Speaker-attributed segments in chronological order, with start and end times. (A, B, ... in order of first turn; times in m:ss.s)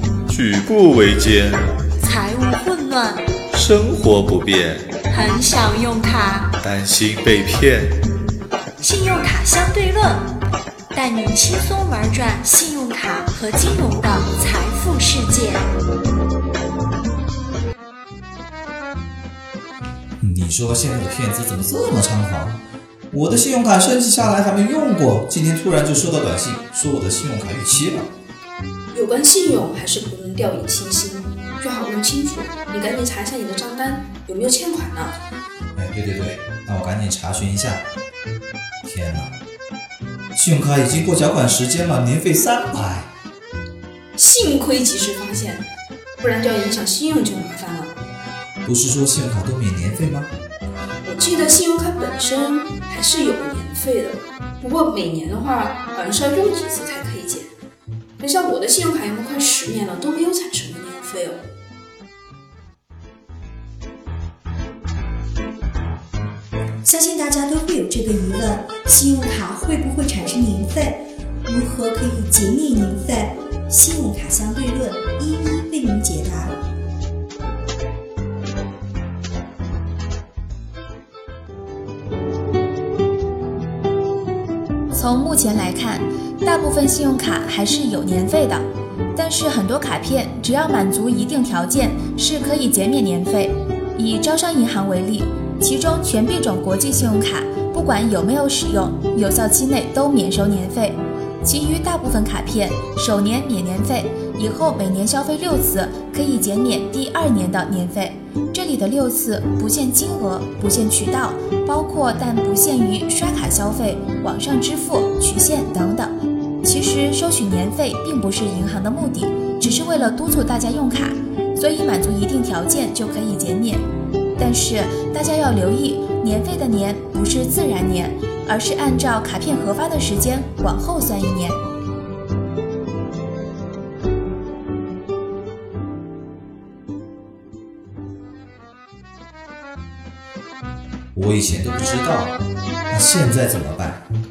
0:00.3-0:01.7 A
0:02.0-0:03.2 B
0:03.5-0:04.9 A
0:05.1-0:06.5 B
0:06.6-0:08.0 A
0:08.8-0:10.3 B
0:10.9-0:15.7 B
0:20.2-0:22.6 C
0:23.1-0:28.1 C
0:28.9-0:35.2 D
0:35.8-0:37.9 C
0:38.8-0:39.3 C
0:40.4-0:43.1 C
0:44.2-0:45.7 D
0:46.2-0:47.9 D
0:48.6-0:50.3 C
0:51.0-0:57.5 D
0:58.2-1:01.4 D
1:06.8-1:16.6 E
1:24.9-2:03.8 F
2:04.4-2:11.6 F
2:21.1-2:22.4 C
2:22.9-2:24.0 C